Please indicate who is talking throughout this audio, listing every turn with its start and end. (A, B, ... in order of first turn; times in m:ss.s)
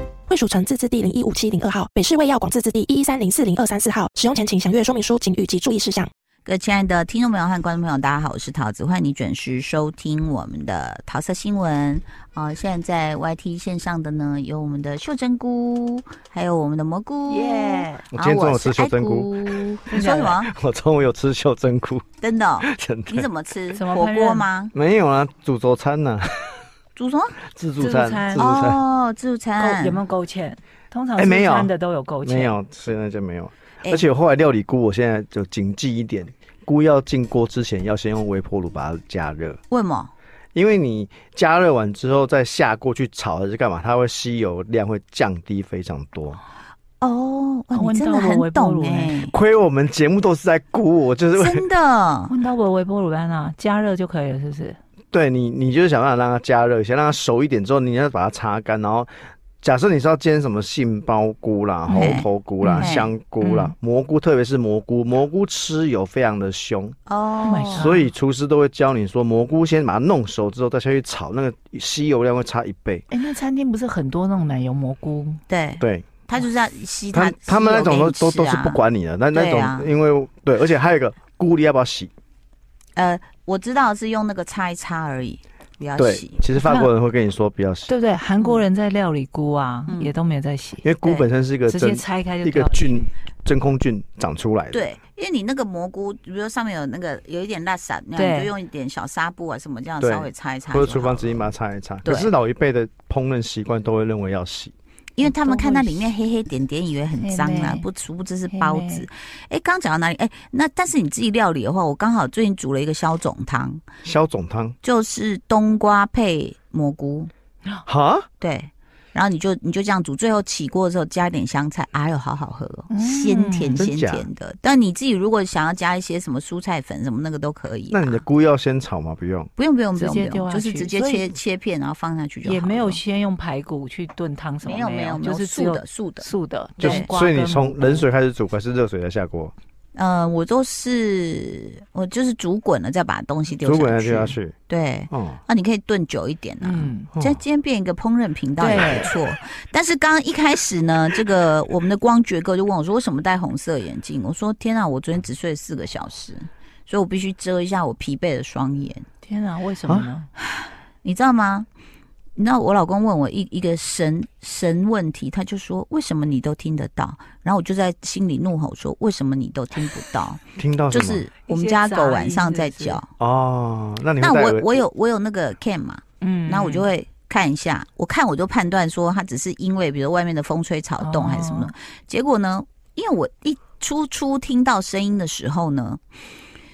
0:00.3-0:06.1 A
0:06.5-0:20.5 B
0:17.3-0:18.0 C
0:18.1-0:19.6 D
0:19.9-0:20.4 C
0:20.2-0:22.0 D
0:22.2-0:24.7 B
0:22.6-0:23.3 D
0:23.7-0:24.5 C
0:24.7-0:26.6 D
0:27.0-0:27.4 B
0:27.5-0:28.8 D
0:27.8-0:28.5 C
0:28.3-0:30.0 B
0:29.6-0:32.6 C
0:31.2-0:31.7 D
0:32.2-0:39.6 D
0:39.7-0:40.1 B
0:40.5-0:46.4 D
0:47.0-0:49.3 B
0:47.7-0:49.2 C
0:49.3-0:51.6 D
0:51.4-0:52.3 B
0:52.3-0:54.8 C
0:55.1-0:59.1 D
0:59.6-1:07.0 D
1:01.9-1:03.7 C
1:01.9-1:02.2 B
1:02.8-1:03.1 B
1:07.1-1:07.9 B
1:07.4-1:08.1 C
1:07.7-1:13.0 D
1:13.1-1:15.4 C
1:15.5-1:18.8 B
1:15.8-1:16.1 D
1:17.1-1:22.1 D
1:19.3-1:19.9 B
1:23.0-1:26.4 B
1:26.0-1:27.9 D
1:26.6-1:26.9 C
1:27.9-1:30.8 C
1:29.9-1:30.1 B
1:30.8-1:34.9 D
1:31.7-1:33.1 C
1:34.7-1:41.5 B
1:38.2-1:38.5 C
1:40.0-1:44.7 D
1:42.0-1:42.3 B
1:45.2-1:53.8 B
1:45.2-1:46.1 C
1:47.2-1:47.9 C
1:48.5-1:49.0 C
1:54.0-1:54.8 D
1:54.8-1:57.3 B
1:57.9-1:58.3 D
1:58.4-2:08.2 B
2:02.9-2:03.8 C
2:03.8-2:04.3 D
2:07.9-2:09.5 D
2:09.6-2:13.0 B
2:10.0-2:11.3 C
2:12.4-2:18.0 C
2:14.6-2:16.3 B
2:16.8-2:19.5 D
2:16.8-2:17.1 B
2:20.0-2:39.1 B
2:23.6-2:24.6 D
2:25.1-2:25.4 D
2:26.6-2:27.1 C
2:27.1-2:27.4 D
2:28.6-2:29.1 C
2:39.2-2:40.3 C
2:40.5-2:41.7 B
2:42.4-2:53.1 B
2:50.6-2:51.3 D
2:51.5-2:53.0 C
2:53.2-2:54.8 D
2:54.2-3:06.0 B
2:56.2-2:56.9 C
3:01.0-3:01.7 C